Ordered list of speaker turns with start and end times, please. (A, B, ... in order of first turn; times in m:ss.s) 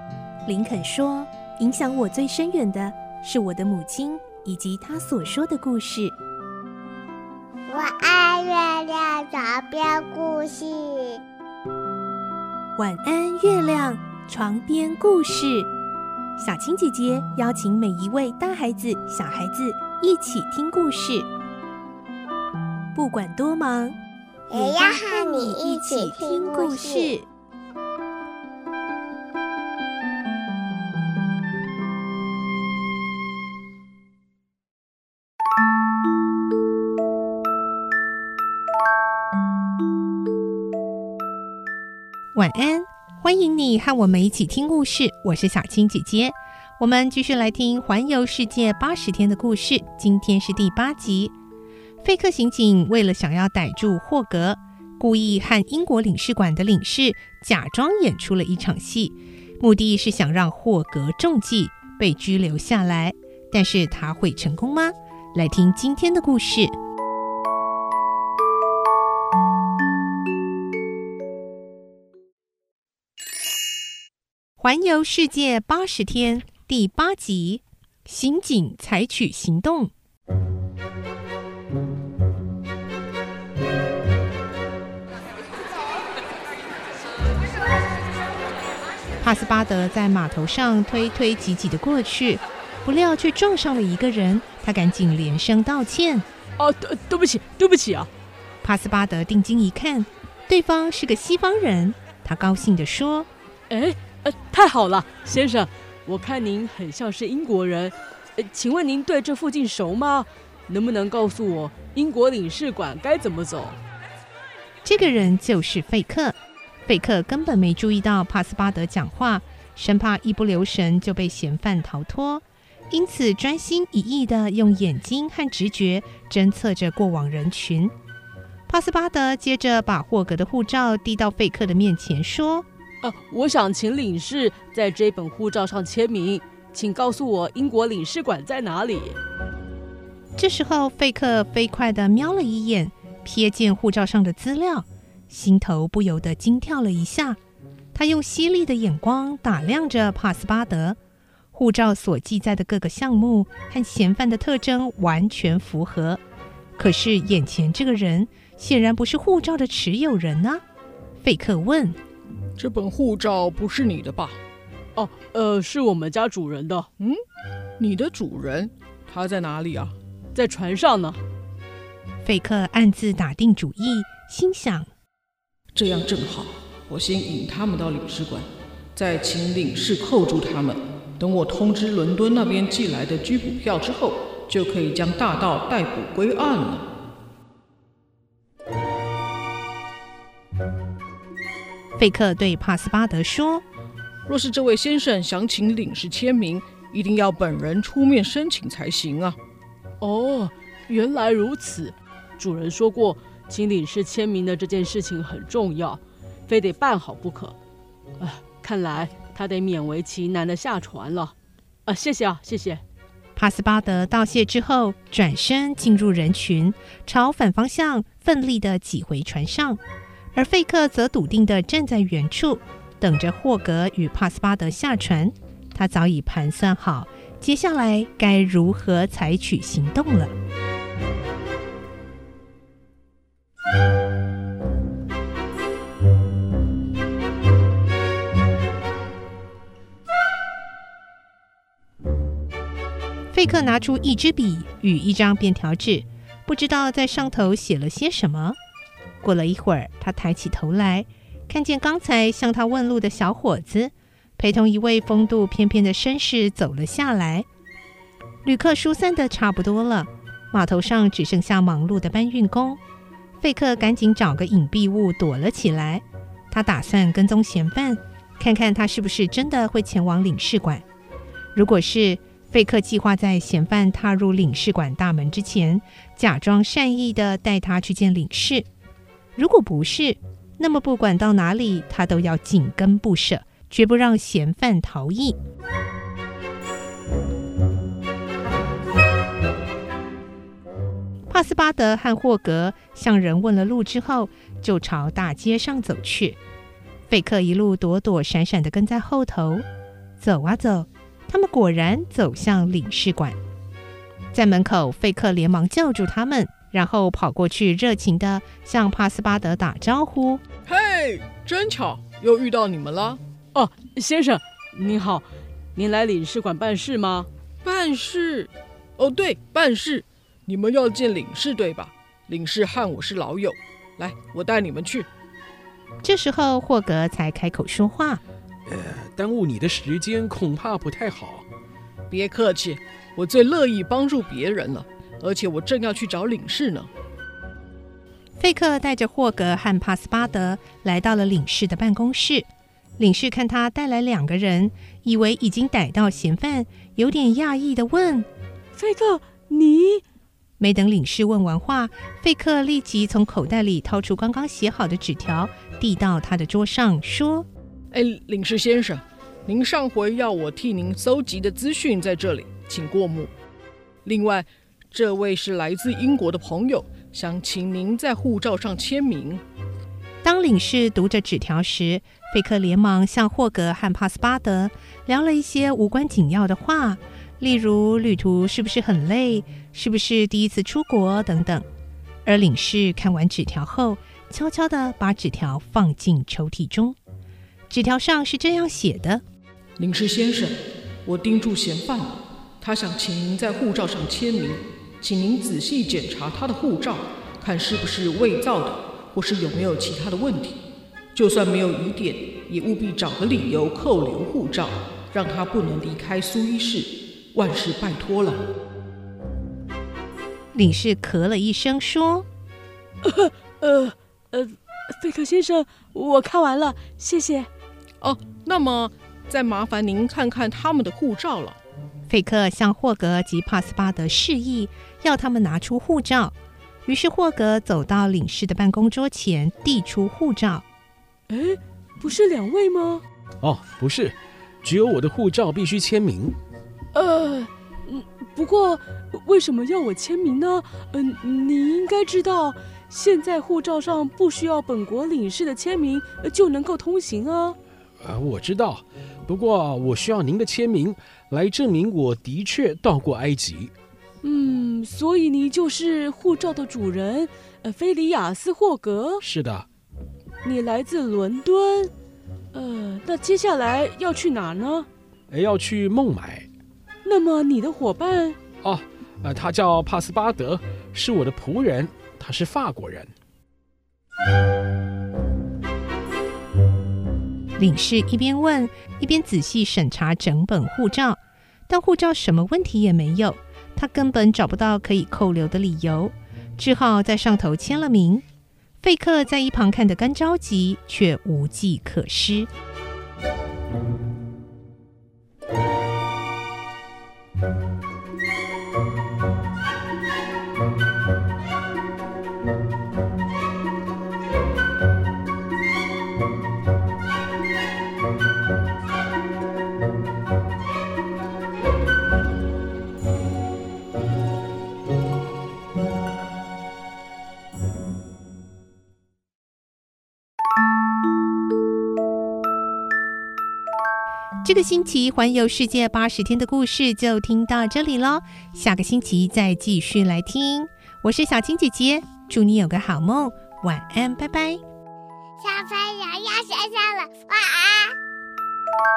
0:00.4-0:06.1 A
0:07.7-0:11.2 B
0:12.8-0:15.7 A
0:16.4-0:21.3 A
0:22.9-0:24.0 A
0:24.5-0:27.1 B
0:24.5-0:27.3 A
0:42.3-0:51.3 A
0:52.0-1:06.7 A
1:14.6-1:19.9 A
1:29.2-1:36.2 A
1:36.6-1:38.1 C
1:38.6-1:43.3 A
1:43.7-1:53.8 C
1:54.8-1:56.3 A
1:56.9-2:07.9 A
2:08.7-2:12.6 A
2:13.0-2:19.2 C
2:20.4-2:27.4 A
2:27.9-2:31.0 A
2:31.5-2:36.2 A
2:36.8-2:40.6 A
2:41.2-2:42.0 A
2:42.6-2:44.4 D
2:45.0-2:46.9 C
2:47.8-2:49.9 D
2:50.3-2:51.2 C
2:52.2-2:54.9 A
2:55.7-3:06.9 D
3:12.0-3:13.6 A
3:14.3-3:19.4 D
3:20.0-3:27.6 C
3:28.2-3:31.3 C
3:31.8-3:32.8 C
3:33.4-3:39.8 A
3:40.3-3:50.3 A
4:03.3-4:08.6 A
4:09.2-4:17.5 A
4:18.4-4:22.8 A
4:23.4-4:30.8 A
4:31.5-4:38.6 A
4:39.4-4:45.4 A
4:51.3-4:56.4 A
4:57.1-4:59.6 A
5:00.2-5:03.4 A
5:04.3-5:10.4 A
5:10.6-5:13.2 D
5:13.5-5:17.3 C
5:17.6-5:25.1 D
5:26.0-5:28.2 A
5:28.7-5:31.4 E
5:32.1-5:36.9 D
5:38.4-5:42.4 A
5:43.0-5:48.3 A
5:48.8-5:50.0 C
5:50.6-5:57.4 A
5:57.9-6:03.3 D
6:04.0-6:09.4 D
6:10.2-6:21.6 A
6:22.2-6:27.0 A
6:27.7-6:29.2 A
6:29.8-6:40.6 D
6:41.1-6:48.4 D
6:50.5-6:52.2 A
6:53.0-6:57.5 C
6:58.0-7:01.6 D
7:02.1-7:06.3 A
7:06.8-7:10.6 A
7:11.3-7:13.0 C
7:13.4-7:16.4 E
7:16.9-7:27.6 C
7:28.0-7:33.7 E
7:34.2-7:39.2 C
7:39.2-7:39.7 E
7:40.4-7:41.9 C
7:42.5-7:44.9 C
7:45.3-7:46.5 E
7:47.0-7:48.4 C
7:48.6-7:53.1 E
7:57.6-8:08.2 A
8:08.8-8:12.5 A
8:44.4-8:54.6 A
8:55.4-8:58.0 B